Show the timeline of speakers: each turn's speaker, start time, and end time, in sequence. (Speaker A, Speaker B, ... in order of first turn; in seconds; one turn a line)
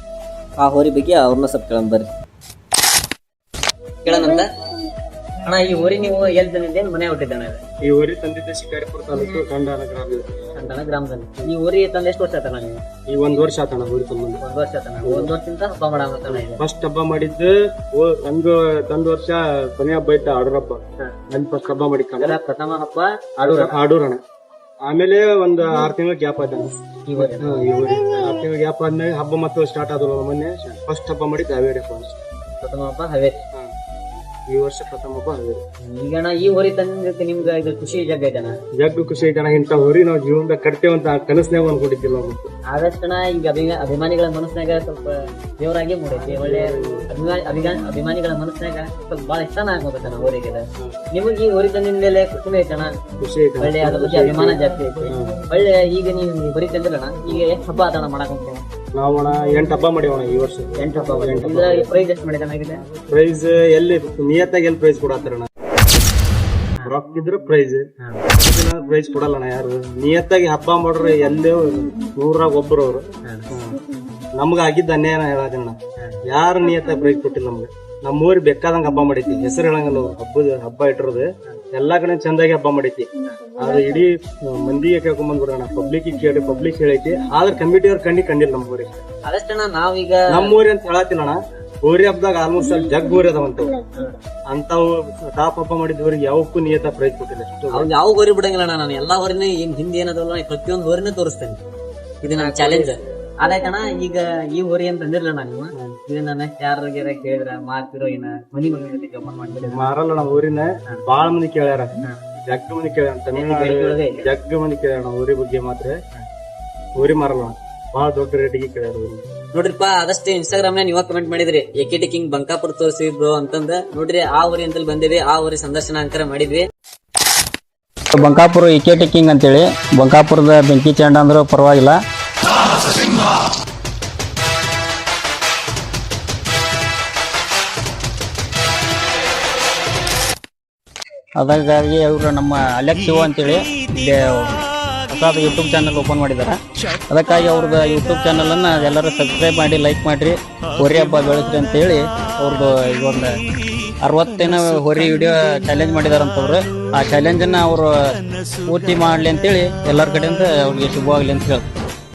Speaker A: 0.6-2.1
Speaker A: 4.0-4.5
Speaker A: 5.4-7.6
Speaker B: 7.8-10.3
Speaker A: 10.5-12.8
Speaker B: 13.1-14.4
Speaker A: 14.4-16.6
Speaker B: 15.0-15.3
Speaker B: 16.3-22.4
Speaker A: 22.2-23.8
Speaker B: 23.4-24.2
Speaker B: 24.9-32.2
Speaker A: 27.1-27.7
Speaker A: 32.6-33.4
Speaker B: 34.5-35.6
Speaker A: 35.9-38.6
Speaker B: 38.8-42.5
Speaker A: 42.7-52.9
Speaker B: 46.4-47.1
Speaker B: 53.2-55.4
Speaker A: 53.6-58.6
Speaker B: 59.0-61.9
Speaker A: 60.8-62.9
Speaker B: 63.1-65.5
Speaker B: 66.8-73.8
Speaker A: 73.3-73.5
Speaker B: 74.4-89.0
Speaker A: 89.3-90.5
Speaker B: 90.3-93.8
Speaker B: 94.5-97.9
Speaker A: 97.7-101.6
Speaker A: 102.2-109.9
Speaker B: 102.3-103.0
Speaker B: 109.7-112.0
Speaker B: 112.5-116.0
Speaker A: 113.3-114.2
Speaker B: 117.0-119.2
Speaker A: 119.5-126.7
Speaker C: 128.1-132.0
Speaker C: 141.4-144.6
Speaker C: 145.1-146.6
Speaker C: 147.1-153.3
Speaker C: 154.0-157.9
Speaker C: 158.7-161.7